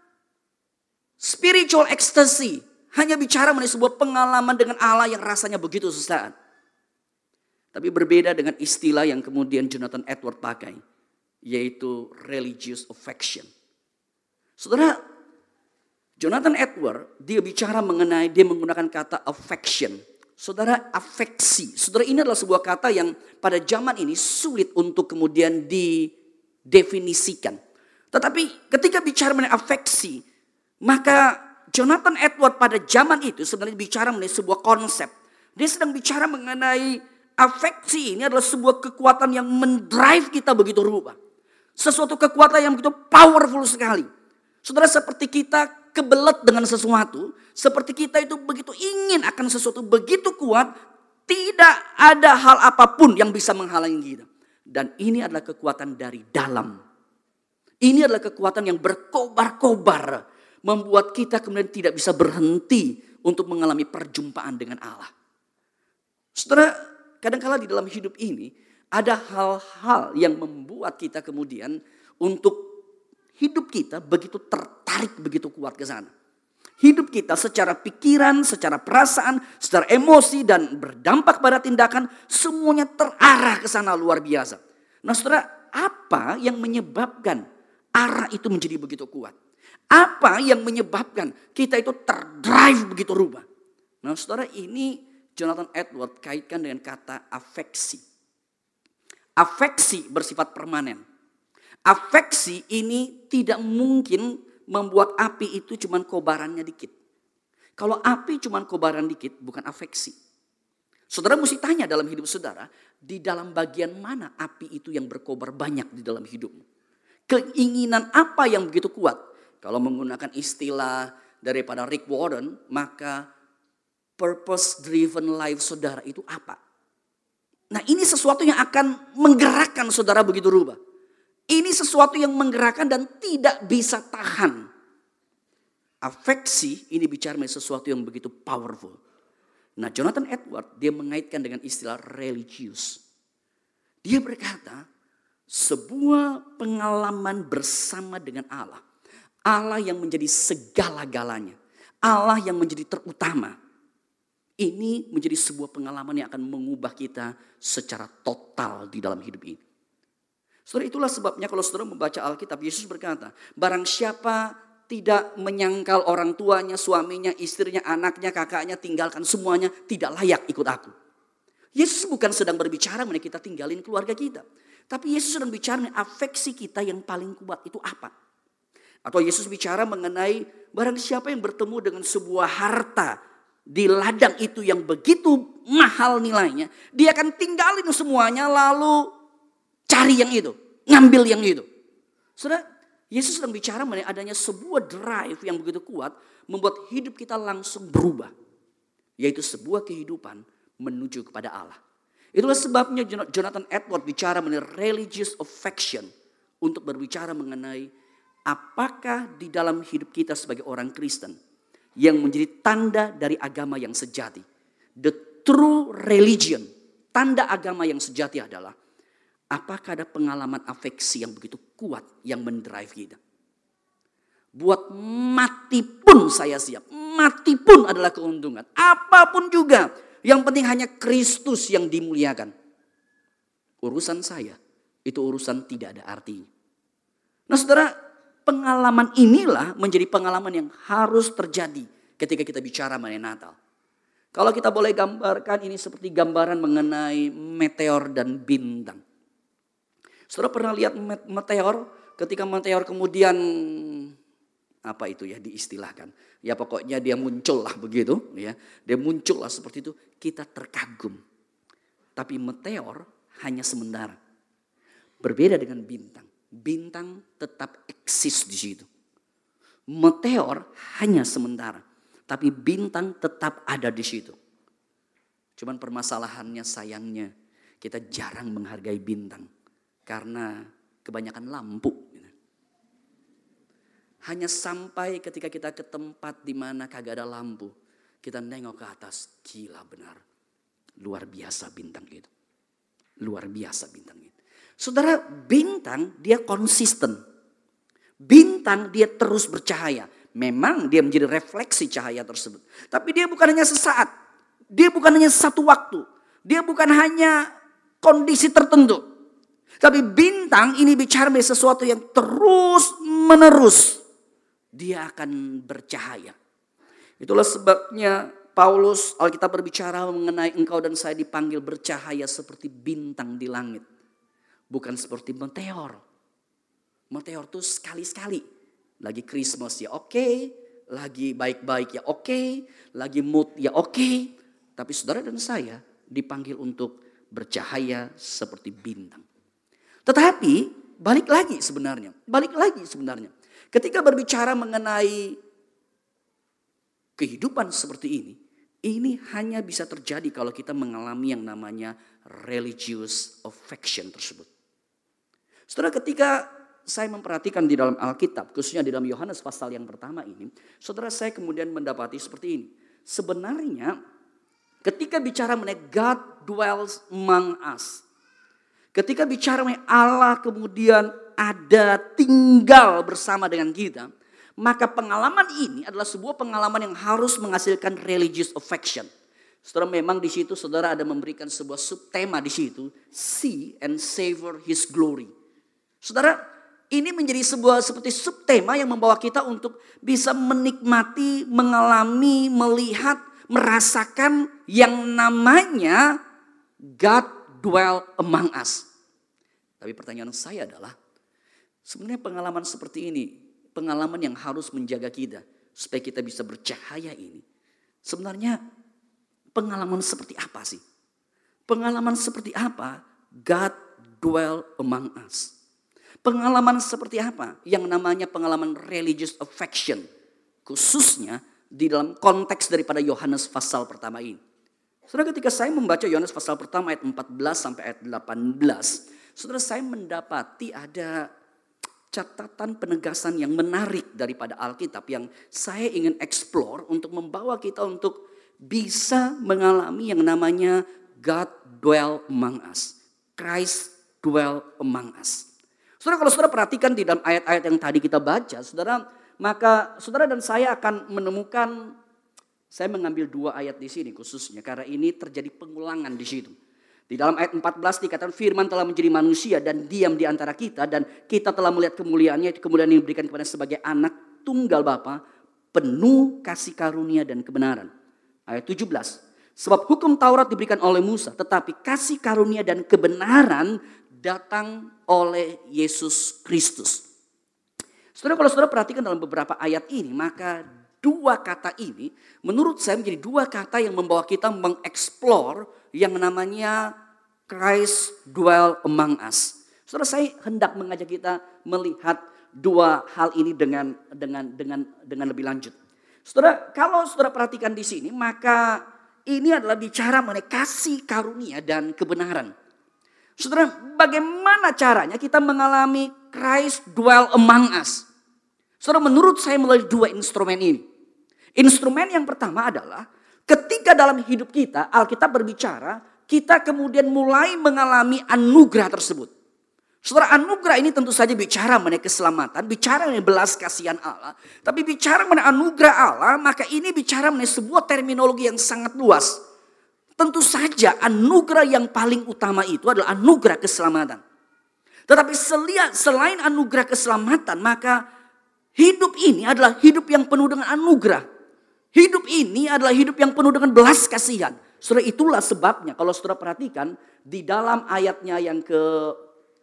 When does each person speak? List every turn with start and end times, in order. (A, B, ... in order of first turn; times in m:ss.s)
0:01.2-0:06.3 A
0:07.7-0:10.8 A
0:11.5-0:13.5 A
0:14.6-0:15.0 A
0:16.2-0:26.1 A
0:26.7-0:27.6 A
0:28.1-0:30.2 A
0:30.8-0:41.2 A
0:41.8-0:44.1 A
0:44.6-0:50.7 A
0:51.3-0:56.8 A
0:57.8-1:05.1 A
1:06.4-1:12.8 A
1:13.4-1:16.1 A
1:16.8-1:27.4 A
1:28.0-1:29.4 A
1:29.9-1:33.5 A
1:34.0-1:38.0 A
1:39.4-1:41.0 A
1:41.9-1:46.9 A
1:47.8-1:50.2 A
1:51.1-1:56.6 A
1:57.3-2:03.3 A
2:04.2-2:06.6 A
2:07.7-2:10.8 A
2:11.5-2:14.7 A
2:16.0-2:19.0 A
2:19.8-2:23.0 A
2:24.0-2:24.8 A
2:25.5-2:28.8 A
2:29.5-2:33.6 A
2:34.6-2:39.6 A
2:40.7-2:50.9 A
2:51.8-2:58.1 A
2:59.0-3:03.2 A
3:03.7-3:09.1 A
3:09.9-3:11.7 A
3:12.4-3:18.3 A
3:19.2-3:21.8 A
3:22.3-3:26.1 A
3:26.6-3:27.9 A
3:28.5-3:31.4 A
3:32.0-3:34.4 A
3:35.0-3:38.8 A
3:39.5-3:43.2 A
3:44.5-3:52.5 A
3:53.8-3:56.5 A
3:57.5-3:57.9 A
3:58.5-4:03.6 A
4:04.3-4:09.0 A
4:10.3-4:14.1 A
4:14.9-4:21.2 A
4:22.2-4:24.2 A
4:25.2-4:28.9 A
4:29.9-4:34.4 A
4:35.6-4:37.3 A
4:37.8-4:39.5 A
4:40.1-4:42.3 A
4:44.3-4:50.2 A
4:51.0-4:52.3 A
4:53.2-4:57.2 A
4:58.2-5:04.1 A
5:04.7-5:07.5 A
5:08.0-5:09.0 A
5:09.8-5:14.0 A
5:14.8-5:16.4 A
5:17.2-5:23.8 A
5:24.7-5:26.0 A
5:27.1-5:28.4 A
5:29.0-5:39.2 A
5:40.1-5:45.4 A
5:47.2-5:54.5 A
5:55.7-6:03.9 A
6:04.8-6:08.0 A
6:08.9-6:19.1 A
6:19.6-6:25.3 A
6:26.0-6:26.4 A
6:26.9-6:36.2 A
6:36.8-6:38.9 A
6:39.8-6:41.0 A
6:41.9-6:47.4 A
6:48.0-6:48.6 A
6:49.6-6:50.8 A
6:51.7-6:55.5 A
6:56.2-7:00.0 A
7:00.7-7:04.4 A
7:05.1-7:11.3 A
7:12.1-7:25.5 A
7:26.0-7:31.9 A
7:32.7-7:36.6 A
7:37.1-7:45.2 A
7:45.7-7:47.9 A
7:48.5-7:57.0 A
7:58.2-8:06.9 A
8:07.5-8:22.5 A
8:23.4-8:28.1 A
8:28.8-8:30.8 A
8:31.6-8:39.3 A
8:40.0-8:49.4 A
8:50.2-8:54.2 A
8:55.1-8:58.0 A
8:58.8-9:01.2 A
9:01.9-9:09.2 A